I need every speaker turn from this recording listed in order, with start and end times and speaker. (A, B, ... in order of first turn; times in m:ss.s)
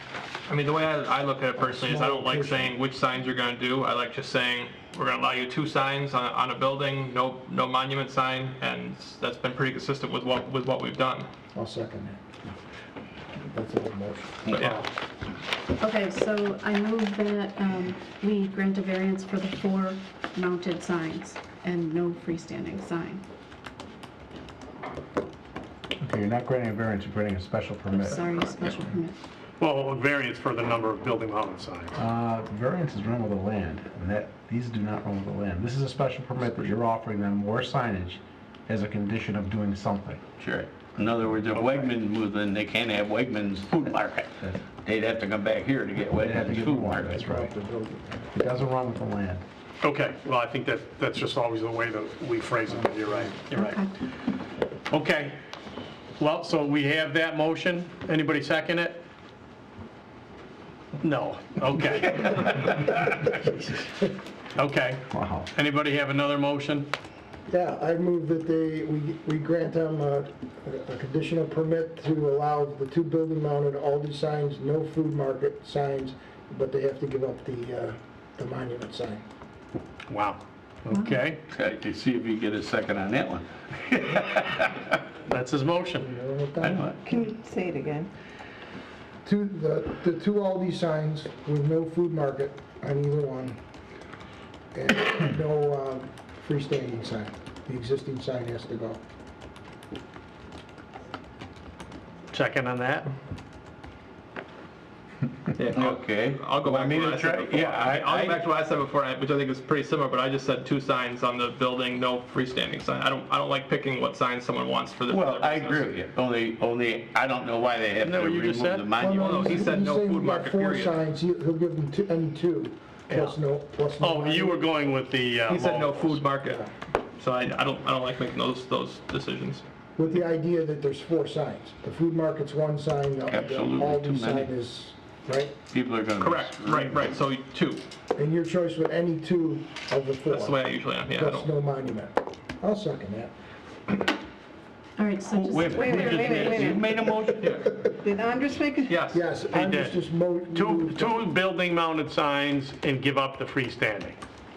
0:00.5-0:11.3 A
0:01.6-0:02.7 B
0:11.5-0:12.2 B
0:13.5-0:14.4 B
0:14.5-0:14.8 A
0:14.6-0:14.8 C
0:15.8-0:23.2 D
0:26.0-0:28.2 E
0:27.9-0:29.1 D
0:29.6-0:32.0 C
0:31.9-0:40.2 E
0:40.4-0:47.2 F
0:41.5-0:41.9 C
0:46.2-0:47.5 E
0:47.0-0:48.3 B
0:48.3-0:49.4 E
0:49.8-0:53.8 C
0:53.6-0:53.9 D
0:54.9-0:55.4 C
0:56.2-0:59.0 C
1:01.0-1:03.8 C
1:04.5-1:06.9 C
1:05.1-1:05.5 E
1:07.5-1:19.2 B
1:20.1-1:21.4 C
1:20.9-1:21.2 D
1:21.5-1:24.9 F
1:25.2-1:26.1 C
1:26.0-1:26.9 B
1:26.6-1:27.0 F
1:27.1-1:28.0 G
1:29.2-1:33.6 B
1:34.7-1:39.0 B
1:42.3-1:43.1 C
1:45.5-1:55.9 A
1:45.7-1:48.4 F
1:55.1-1:59.6 F
1:58.0-1:58.9 C
1:59.0-2:04.7 B
1:59.2-2:01.0 A
2:03.1-2:03.4 C
2:04.0-2:06.2 C
2:05.5-2:06.6 A
2:06.4-2:06.7 B
2:07.2-2:09.6 A
2:10.0-2:15.5 B
2:13.3-2:14.5 F
2:15.7-2:17.0 F
2:16.2-2:17.8 A
2:18.2-2:23.3 B
2:20.3-2:21.5 A
2:25.0-2:26.8 D
2:25.3-2:27.6 F
2:25.7-2:27.1 G
2:27.4-2:27.7 A
2:27.9-2:29.0 G
2:28.9-2:29.2 A
2:29.1-2:31.2 B
2:29.5-2:34.2 C